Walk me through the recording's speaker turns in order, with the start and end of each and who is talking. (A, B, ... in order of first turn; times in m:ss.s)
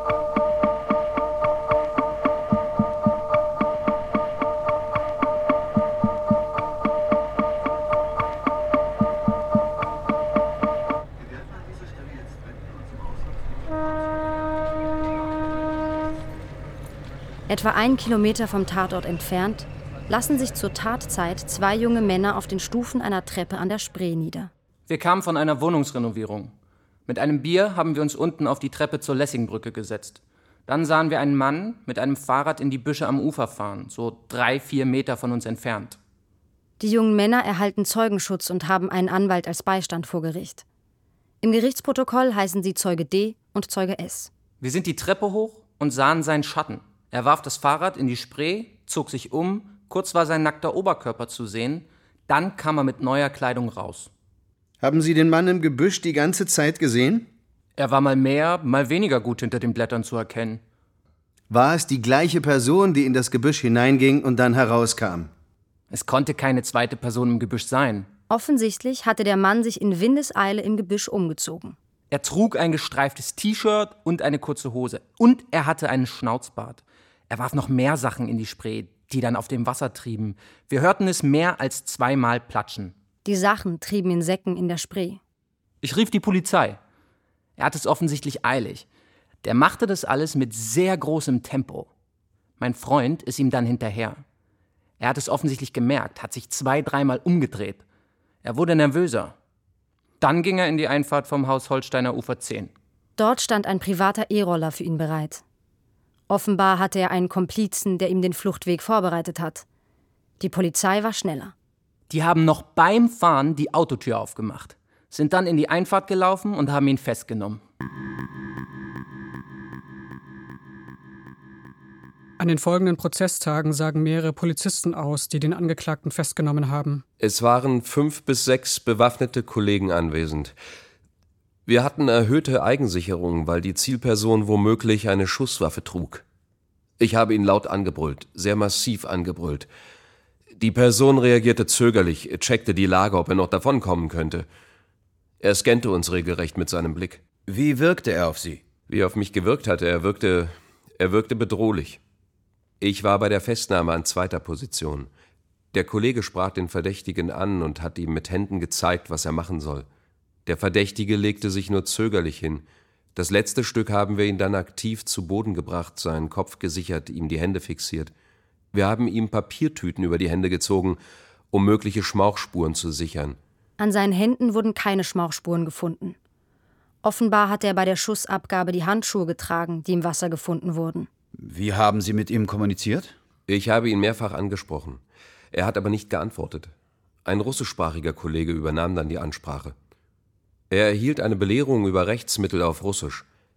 0:17.5-0:24.5 A
0:24.9-0:26.5 B
0:27.0-0:36.0 B
0:36.8-0:40.6 A
0:41.4-0:44.3 A
0:44.6-0:54.1 B
0:54.8-0:57.3 C
0:57.8-1:00.6 B
1:01.5-1:05.3 C
1:05.9-1:08.1 B
1:08.3-1:11.8 A
1:12.1-1:22.9 B
1:23.2-1:25.2 A
1:25.8-1:26.8 B
1:27.6-1:28.8 B
1:29.4-1:31.9 B
1:32.6-1:34.2 B
1:35.0-1:37.8 B
1:38.4-1:39.3 B
1:40.2-1:42.7 B
1:43.2-1:45.4 A
1:46.3-1:49.6 A
1:50.4-1:51.5 A
1:52.1-1:57.6 B
2:02.4-2:07.0 D
2:07.2-2:10.5 E
2:11.6-2:16.2 E
2:17.0-2:19.7 E
2:20.6-2:24.5 E
2:25.4-2:27.2 E
2:27.5-2:28.6 F
2:28.9-2:32.0 E
2:32.8-2:35.1 E
2:35.7-2:39.9 E
2:40.4-2:48.1 E
2:48.7-2:51.0 E
2:51.5-2:53.4 E
2:53.8-2:56.2 A
2:57.0-3:01.1 A
3:01.4-3:03.2 F
3:03.5-3:05.0 E
3:05.5-3:06.7 E
3:07.2-3:09.7 E
3:10.7-3:13.2 E